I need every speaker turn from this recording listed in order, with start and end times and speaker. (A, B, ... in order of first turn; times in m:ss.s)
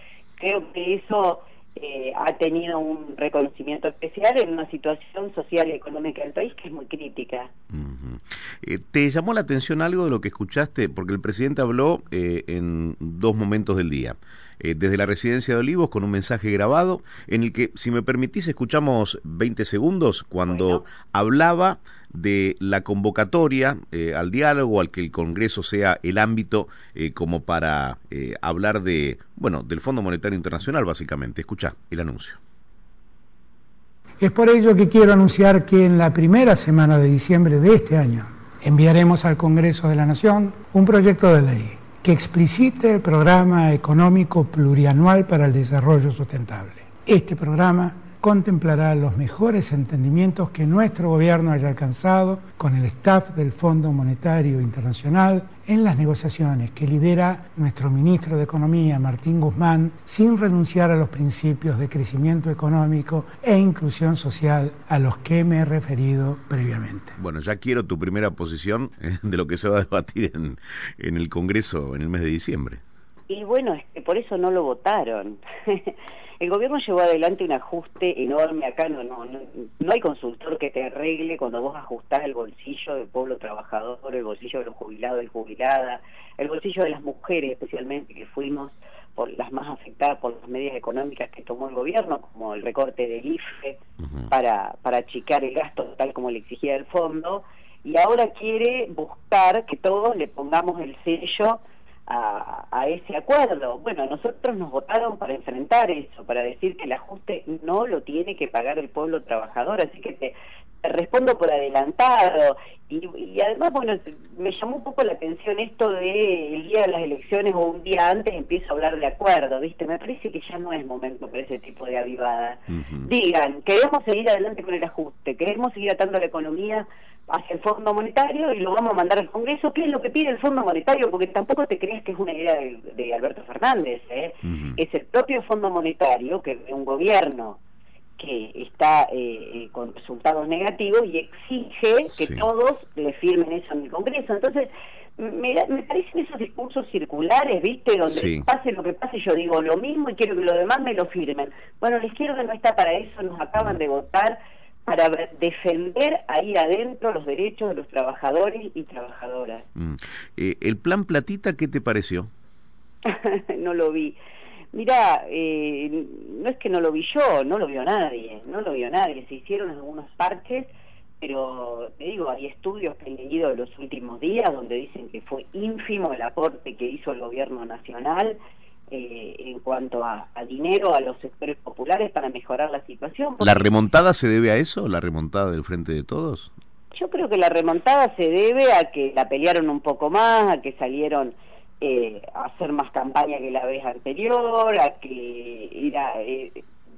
0:00.4-0:07.5 A
0:07.7-0:32.4 B
0:20.5-0:20.9 A
0:34.2-1:07.1 C
1:07.2-1:12.8 B
1:13.3-1:33.8 A
1:34.3-2:17.6 A
2:02.7-2:03.1 B
2:14.5-2:14.8 B
2:18.2-2:39.6 A
2:28.1-2:28.4 B
2:39.8-2:42.3 B
2:43.0-2:44.2 A
2:44.7-2:58.4 A
2:58.9-3:03.7 A
3:03.4-3:06.5 B
3:06.9-3:16.6 A